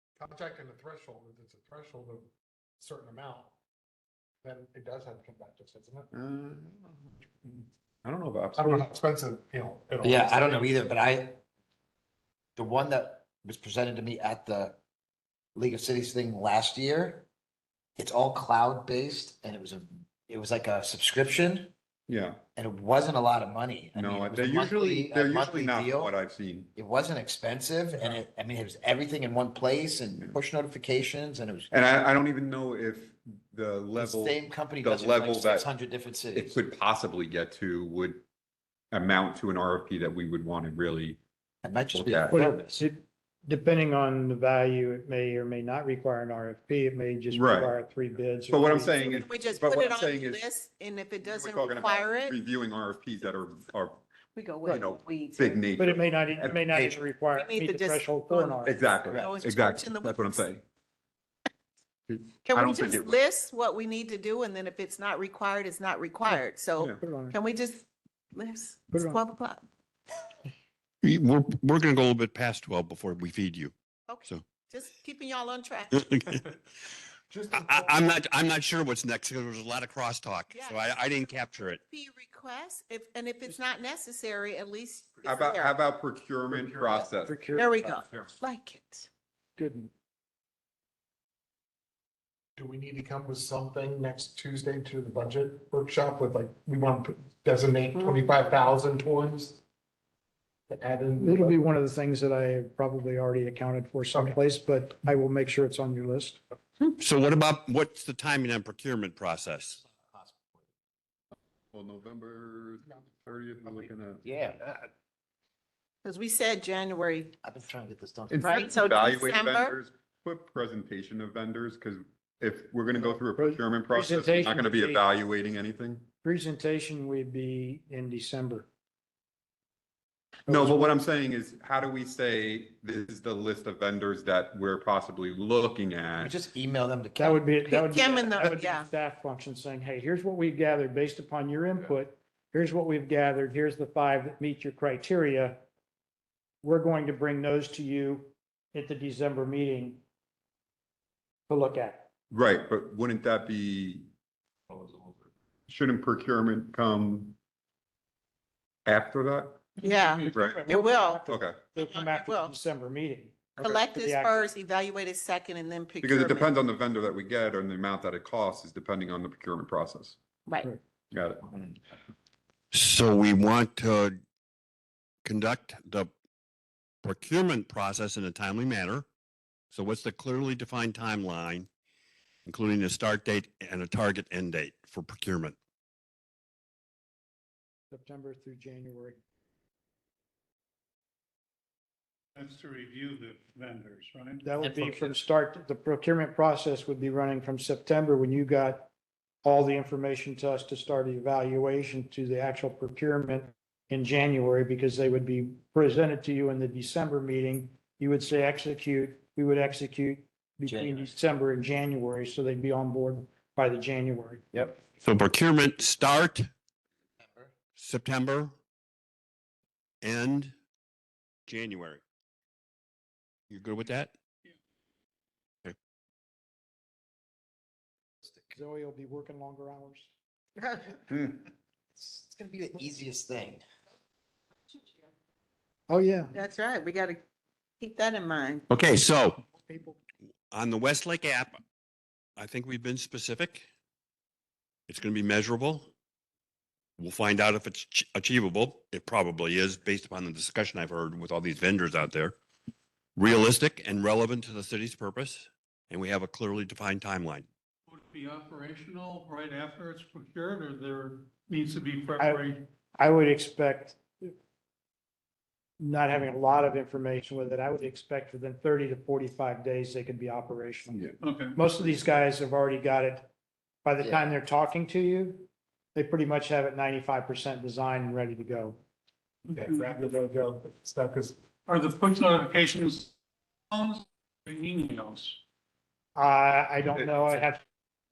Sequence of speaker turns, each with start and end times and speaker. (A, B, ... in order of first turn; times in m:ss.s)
0:00.2-0:02.3 A
0:02.8-0:03.5 A
0:04.4-0:06.1 A
0:06.1-0:07.0 B
0:08.0-0:08.9 B
0:08.5-0:10.8 A
0:10.0-0:11.4 C
0:12.6-0:14.8 C
0:15.5-0:17.3 C
0:18.0-0:21.7 C
0:22.1-0:22.4 B
0:22.6-0:26.1 C
0:24.0-0:26.7 B
0:26.8-0:31.7 C
0:31.7-0:35.7 B
0:34.0-0:36.6 C
0:36.4-0:38.2 B
0:38.9-0:41.2 B
0:41.6-0:42.8 C
0:42.0-0:42.3 B
0:42.3-0:49.3 D
0:47.3-0:47.7 B
0:48.5-0:50.4 B
0:49.2-0:52.4 E
0:51.2-0:54.0 B
0:54.3-0:55.7 E
0:54.6-0:56.6 B
0:55.7-0:58.8 D
0:56.7-0:57.0 C
0:57.3-1:00.4 E
0:58.6-1:00.6 B
1:02.1-1:03.1 B
1:02.4-1:09.6 E
1:07.0-1:07.4 D
1:08.9-1:09.2 D
1:11.0-1:13.7 F
1:14.1-1:16.0 E
1:15.9-1:16.4 F
1:17.3-1:18.1 A
1:17.5-1:21.8 F
1:20.5-1:20.9 E
1:21.8-1:25.7 E
1:25.2-1:27.4 B
1:26.5-1:27.9 D
1:27.5-1:29.1 E
1:29.6-1:29.9 D
1:32.6-1:39.6 A
1:40.7-1:41.5 A
1:41.2-1:46.4 D
1:47.0-1:49.8 F
1:49.9-1:50.6 C
1:51.7-1:54.2 B
1:54.2-1:54.8 C
1:56.0-1:57.3 E
1:57.4-1:58.6 C
1:58.3-2:06.1 B
1:58.4-1:59.8 E
2:03.0-2:05.0 D
2:06.2-2:08.7 D
2:10.4-2:10.9 D
2:10.5-2:16.3 B
2:16.2-2:17.4 C
2:17.2-2:25.6 D
2:17.7-2:18.9 E
2:26.6-2:30.0 D
2:31.5-2:32.1 D
2:32.3-2:34.1 B
2:35.7-2:37.4 B
2:38.8-2:39.7 B
2:39.8-2:41.2 E
2:40.3-2:40.6 B
2:40.3-2:44.5 D
2:41.3-2:41.6 B
2:41.8-2:42.5 E
2:43.6-2:46.6 E
2:46.0-2:50.2 B
2:51.1-2:51.4 B
2:52.7-2:54.2 F
2:55.2-2:56.1 F
2:57.0-2:59.0 F
2:59.7-3:01.7 F
3:02.4-3:05.6 F
3:07.9-3:09.2 D
3:12.4-3:14.4 G
3:14.4-3:18.9 D
3:14.6-3:15.2 C
3:19.4-3:34.6 D
3:30.6-3:31.1 C
3:35.0-3:36.5 F
3:37.2-3:37.5 C
3:37.8-3:38.5 F
3:40.0-3:40.5 F
3:41.5-3:42.0 F
3:43.5-3:44.1 F
3:48.4-3:50.1 D
3:50.6-3:51.0 E
3:51.9-3:53.6 C
3:55.9-3:56.4 D
3:56.3-3:57.2 E
3:57.8-3:58.6 E
3:58.7-3:59.4 F
3:59.5-4:00.0 D
4:00.5-4:01.6 F
4:02.4-4:03.6 F
4:04.9-4:05.9 F
4:07.0-4:12.4 F
4:13.2-4:17.4 F
4:17.9-4:22.6 G
4:22.2-4:24.3 D
4:25.8-4:33.3 D
4:31.2-4:31.6 G
4:33.8-4:38.8 D
4:34.0-4:34.3 C
4:39.5-4:40.2 G
4:39.5-4:41.4 A
4:41.6-4:43.1 G
4:43.7-4:45.4 G
4:46.2-4:47.6 D